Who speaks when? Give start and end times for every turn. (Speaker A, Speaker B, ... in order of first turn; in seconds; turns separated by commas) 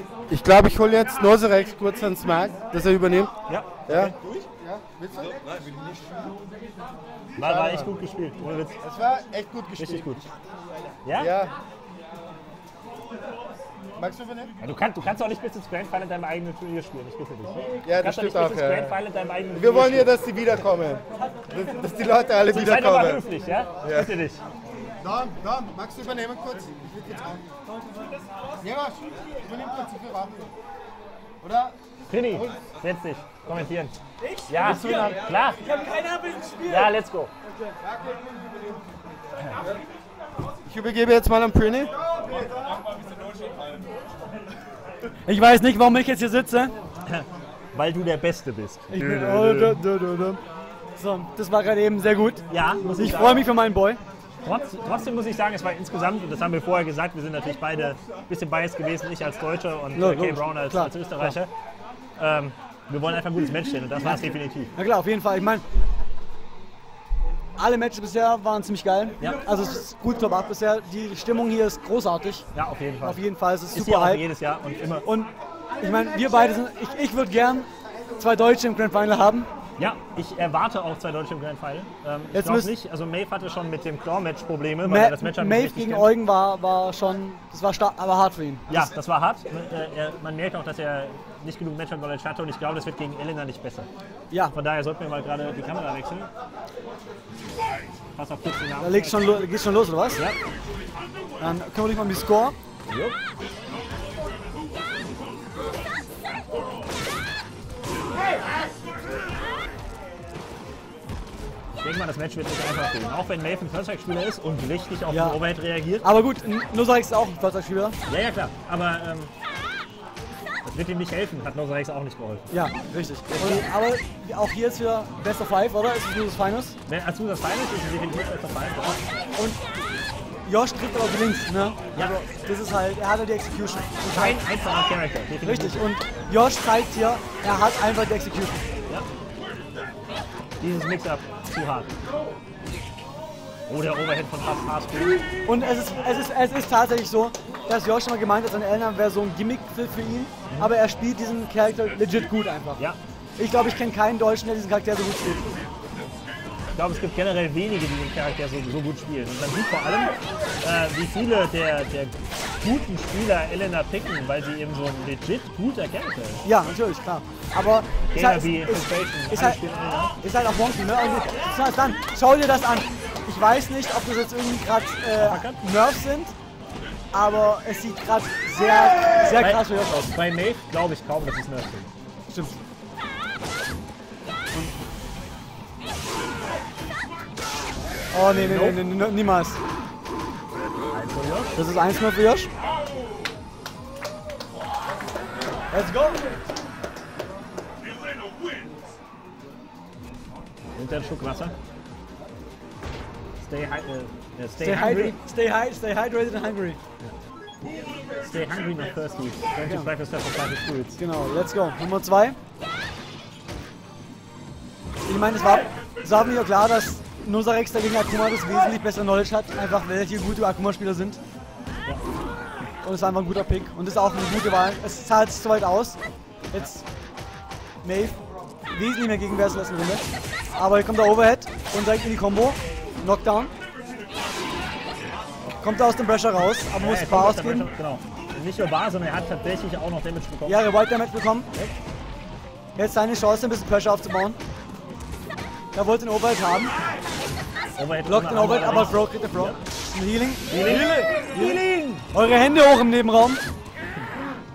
Speaker A: 0.3-3.3, Speaker B: 3.5-4.5, Speaker A: 3.9-5.8, Speaker A: 7.3-7.9, Speaker B: 7.4-8.8, Speaker A: 8.8-10.3, Speaker B: 9.8-10.2, Speaker B: 11.1-11.3, Speaker A: 11.2-11.5, Speaker A: 14.0-14.5, Speaker B: 14.6-20.1, Speaker A: 17.8-18.9, Speaker A: 19.5-23.2, Speaker B: 22.5-24.4, Speaker A: 23.8-24.1, Speaker A: 25.0-27.4, Speaker A: 28.6-30.5, Speaker A: 31.4-31.8, Speaker B: 32.1-34.0, Speaker A: 32.3-32.7, Speaker B: 34.5-35.6, Speaker A: 34.6-35.1, Speaker C: 36.2-36.5, Speaker B: 36.6-37.3, Speaker A: 37.8-38.6, Speaker A: 40.6-41.9, Speaker C: 45.3-46.7, Speaker B: 47.1-49.8, Speaker C: 48.9-50.4, Speaker C: 51.0-52.4, Speaker B: 52.5-53.5, Speaker C: 53.0-54.0, Speaker B: 54.4-61.5, Speaker C: 60.0-61.4, Speaker B: 62.2-64.7, Speaker C: 64.8-65.6, Speaker C: 67.6-72.4, Speaker B: 72.5-73.2, Speaker C: 73.0-74.2, Speaker B: 73.7-75.0, Speaker C: 75.0-79.5, Speaker B: 79.8-86.1, Speaker C: 82.3-82.7, Speaker C: 84.8-88.9, Speaker B: 88.7-93.9, Speaker B: 94.5-96.3, Speaker B: 98.2-99.5, Speaker C: 98.8-100.2, Speaker C: 101.4-102.6, Speaker B: 102.9-103.2, Speaker B: 111.7-116.1, Speaker C: 115.1-115.4, Speaker C: 116.0-118.0, Speaker B: 118.1-119.3, Speaker B: 120.7-122.5, Speaker C: 122.5-126.8, Speaker B: 123.3-123.7, Speaker B: 126.9-129.0, Speaker C: 130.5-134.4, Speaker B: 134.1-135.8, Speaker C: 135.4-138.6, Speaker B: 140.6-141.9, Speaker B: 143.7-145.2, Speaker C: 145.5-152.8, Speaker C: 153.4-155.5, Speaker B: 156.8-166.4, Speaker C: 166.4-169.6, Speaker B: 168.1-170.1, Speaker C: 170.2-176.3, Speaker B: 175.2-175.6, Speaker C: 177.1-180.1, Speaker B: 179.3-181.9, Speaker C: 182.3-182.6, Speaker C: 188.1-189.6, Speaker B: 188.3-188.8, Speaker B: 190.9-191.6, Speaker C: 191.6-192.5, Speaker C: 195.7-196.2, Speaker B: 200.8-201.6, Speaker B: 203.4-205.2, Speaker C: 204.6-206.8, Speaker B: 208.2-211.0, Speaker C: 209.6-209.9, Speaker C: 211.0-212.4, Speaker C: 215.1-221.2, Speaker C: 222.8-226.0, Speaker C: 226.5-226.8, Speaker C: 227.8-228.2, Speaker C: 228.7-230.0, Speaker C: 230.6-233.5, Speaker C: 235.6-237.7, Speaker B: 236.8-240.6, Speaker C: 240.5-241.5, Speaker C: 242.8-244.4, Speaker C: 245.7-246.7, Speaker B: 247.8-249.6, Speaker C: 248.1-253.4, Speaker B: 250.5-252.1